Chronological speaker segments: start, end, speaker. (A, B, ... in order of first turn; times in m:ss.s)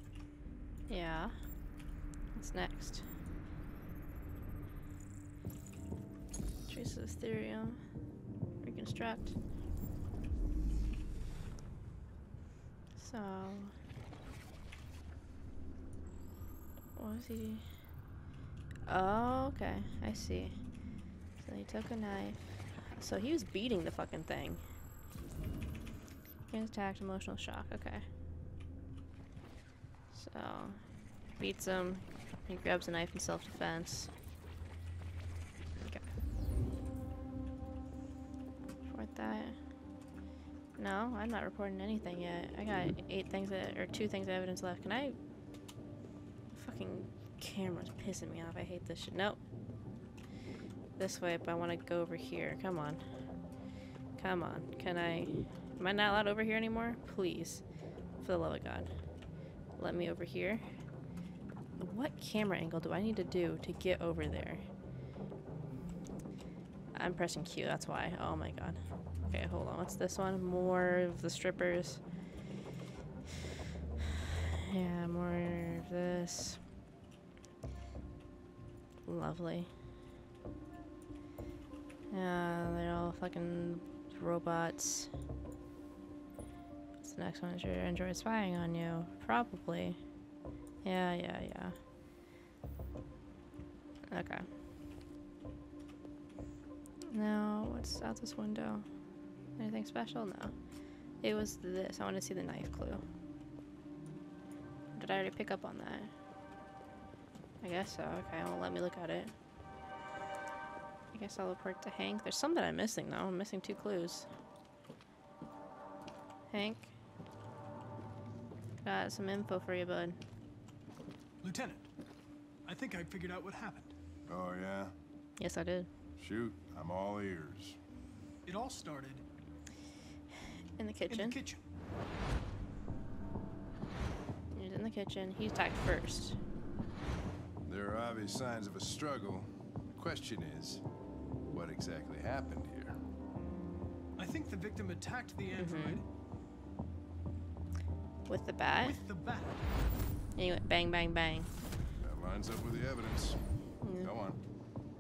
0:00.9-0:01.4 A
0:02.3-0:03.0 A
0:06.7-0:07.8 A
0:08.6-0:09.4 A
0:13.0-0:13.7 A
0:17.0-0:17.7 A
0:18.9-0:20.6 A
0:21.4-0:24.6 A
0:26.5-0:28.0 A
0:30.1-0:30.8 A
0:31.4-0:34.1 A
0:35.8-0:36.1 A
0:38.9-0:39.6 A
0:40.8-0:45.2 A
0:46.5-0:49.4 A
0:51.0-0:53.0 A
0:54.2-0:57.6 A
0:58.2-0:58.9 A
0:59.8-1:00.6 A
1:01.8-1:04.6 A
1:07.0-1:12.0 A
1:14.6-1:16.6 A
1:19.1-1:19.7 A
1:22.1-1:25.1 A
1:27.0-1:30.0 A
1:30.8-1:31.8 A
1:34.1-1:34.5 A
1:37.1-1:38.9 A
1:39.6-1:40.6 A
1:41.2-1:43.0 A
1:45.0-1:46.1 A
1:47.6-1:49.3 A
1:51.1-1:54.3 A
1:56.5-1:56.9 A
1:58.8-2:00.2 A
2:01.4-2:01.9 B
2:02.6-2:03.9 B
2:04.3-2:04.9 C
2:05.4-2:05.9 A
2:06.2-2:07.8 C
2:08.5-2:09.2 B
2:10.8-2:11.4 A
2:11.1-2:11.6 B
2:14.5-2:16.4 A
2:17.6-2:20.8 C
2:21.5-2:23.0 C
2:24.2-2:26.1 B
2:25.5-2:26.0 A
2:28.3-2:29.0 A
2:28.8-2:29.6 B
2:30.4-2:31.5 A
2:32.0-2:33.4 C
2:33.8-2:34.1 A
2:34.0-2:34.4 C